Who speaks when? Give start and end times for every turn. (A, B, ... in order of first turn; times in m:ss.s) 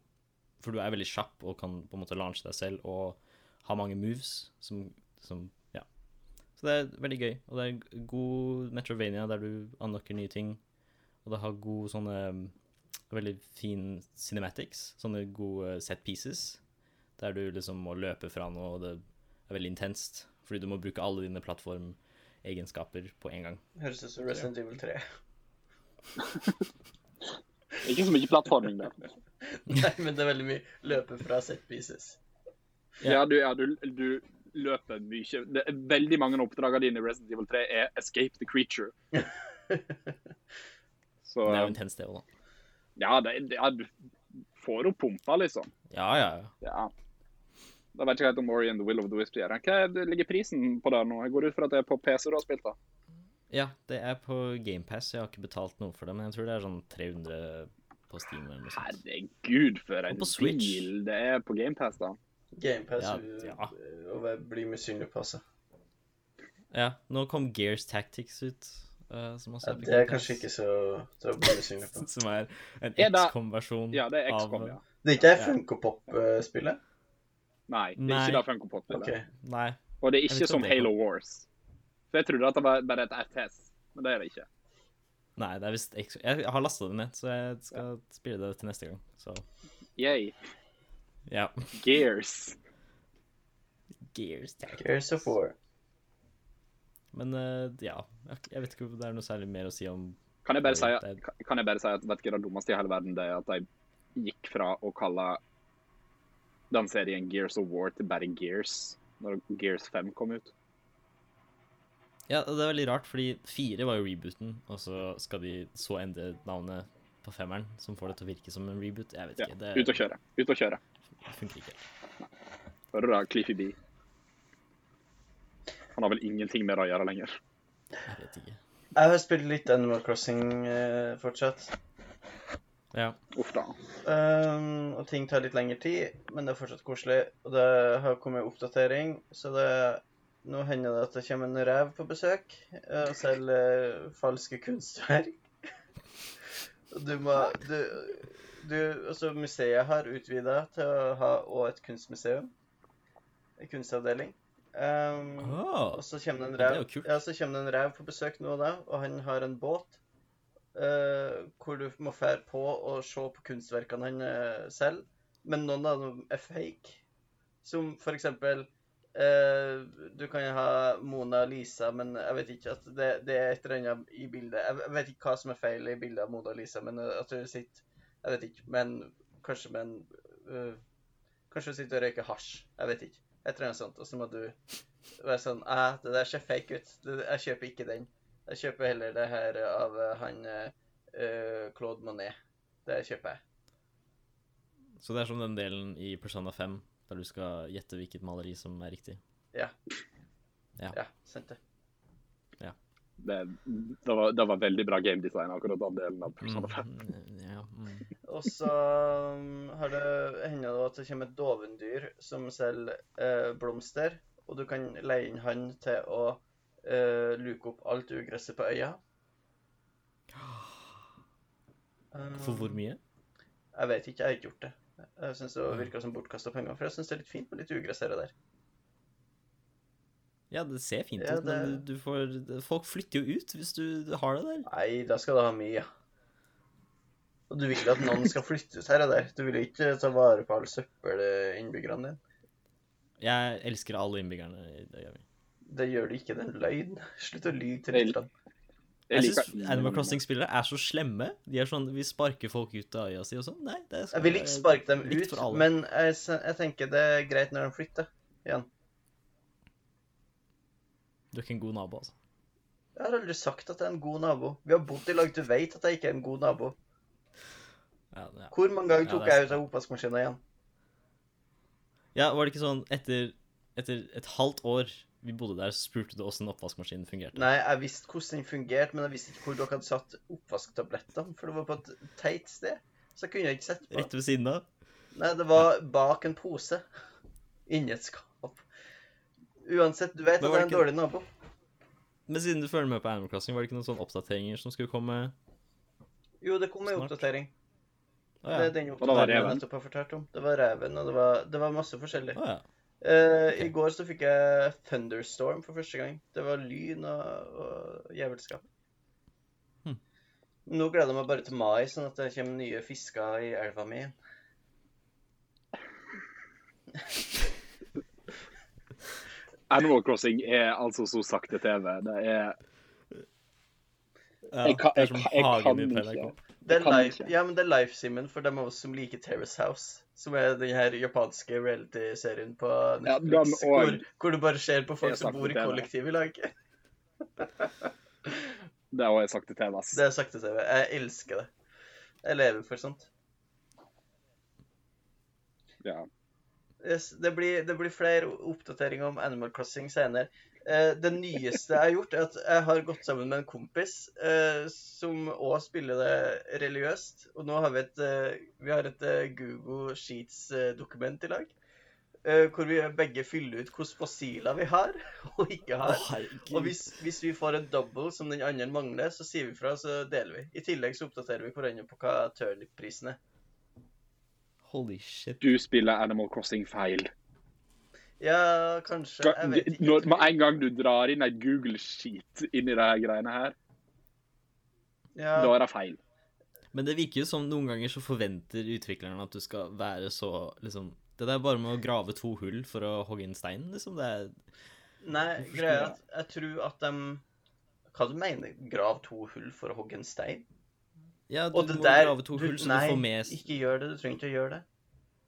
0:00.6-0:05.9 A
0:06.6-0:10.6 A
0:11.2-0:12.5 A
0:13.1-0:16.6 A
0:17.2-0:23.6 A
0:23.8-0:25.0 B
0:27.8-0:29.0 C
0:29.5-0:32.2 B
0:33.0-0:38.9 C
0:39.1-0:40.0 B
0:41.2-0:41.8 C
0:41.4-0:42.3 A
0:43.0-0:43.9 C
0:44.6-0:45.7 C
0:45.9-0:46.5 A
0:46.6-0:46.9 C
0:48.0-0:52.8 C
0:53.5-0:59.0 A
0:58.7-1:02.2 C
1:00.1-1:00.9 A
1:02.5-1:05.4 B
1:03.0-1:03.7 A
1:06.7-1:10.4 A
1:09.6-1:12.1 B
1:12.0-1:14.8 A
1:13.0-1:13.3 C
1:13.9-1:14.8 C
1:15.0-1:16.8 B
1:17.7-1:19.1 C
1:18.0-1:18.4 A
1:18.9-1:19.3 B
1:19.4-1:20.9 A
1:20.0-1:21.5 C
1:22.1-1:24.5 C
1:25.4-1:29.4 A
1:30.0-1:30.4 C
1:31.3-1:31.7 A
1:31.7-1:32.6 C
1:34.1-1:34.9 A
1:34.8-1:35.6 B
1:37.1-1:41.2 A
1:40.4-1:45.4 C
1:46.7-1:50.5 C
1:52.3-2:00.0 A
1:59.4-2:00.8 C
2:01.2-2:01.8 A
2:02.9-2:03.8 C
2:06.0-2:07.4 C
2:08.1-2:08.6 A
2:09.0-2:11.8 B
2:12.9-2:13.2 A
2:13.3-2:13.8 C
2:14.0-2:25.4 B
2:26.9-2:32.5 B
2:33.6-2:40.0 B
2:35.4-2:36.0 A
2:36.6-2:37.1 A
2:40.8-2:47.0 B
2:47.6-3:00.8 B
3:01.5-3:04.6 B
3:05.2-3:13.4 B
3:15.0-3:19.2 A
3:20.9-3:21.6 B
3:23.2-3:26.9 C
3:26.4-3:28.1 A
3:28.3-3:39.0 B
3:40.3-3:41.0 A
3:42.1-3:42.8 B
3:42.4-3:43.0 A
3:43.7-3:48.3 B
3:50.5-3:54.7 A
3:51.2-3:51.8 B
3:54.7-3:55.9 B
3:57.5-4:02.2 B
4:03.2-4:05.2 A
4:05.7-4:08.3 B
4:09.1-4:10.2 C
4:09.1-4:15.7 A
4:14.1-4:18.7 B
4:21.3-4:22.2 A
4:23.0-4:26.8 B
4:28.1-4:29.6 A
4:28.5-4:30.4 B
4:32.2-4:37.4 A
4:37.4-4:44.1 B
4:43.9-4:44.7 A
4:45.1-4:46.8 B
4:47.7-4:48.6 B
4:49.6-4:51.3 B
4:50.4-4:50.9 A
4:52.3-4:55.3 A
4:56.4-4:57.5 B
4:56.9-4:57.2 A
4:58.4-4:59.6 A
4:58.5-5:02.4 B
4:59.0-4:59.6 C
5:02.4-5:02.6 A
5:03.0-5:08.6 B
5:10.7-5:14.2 B
5:19.7-5:22.6 C
5:24.5-5:26.4 A
5:24.6-5:27.3 C
5:26.7-5:36.5 B
5:33.1-5:34.0 C
5:35.0-5:35.9 C
5:37.4-5:37.7 B
5:38.9-5:40.0 C
5:39.9-5:41.5 B
5:42.2-5:43.1 B
5:46.8-6:01.5 B
6:02.2-6:13.2 B
6:05.8-6:06.8 A
6:14.6-6:15.4 A
6:15.4-6:17.1 C
6:18.2-6:20.3 B
6:19.2-6:23.6 C
6:25.2-6:25.6 B
6:25.4-6:26.0 C
6:26.7-6:34.4 A
6:35.0-6:37.2 B
6:37.9-6:40.5 B
6:41.3-6:43.4 A
6:41.5-6:44.6 B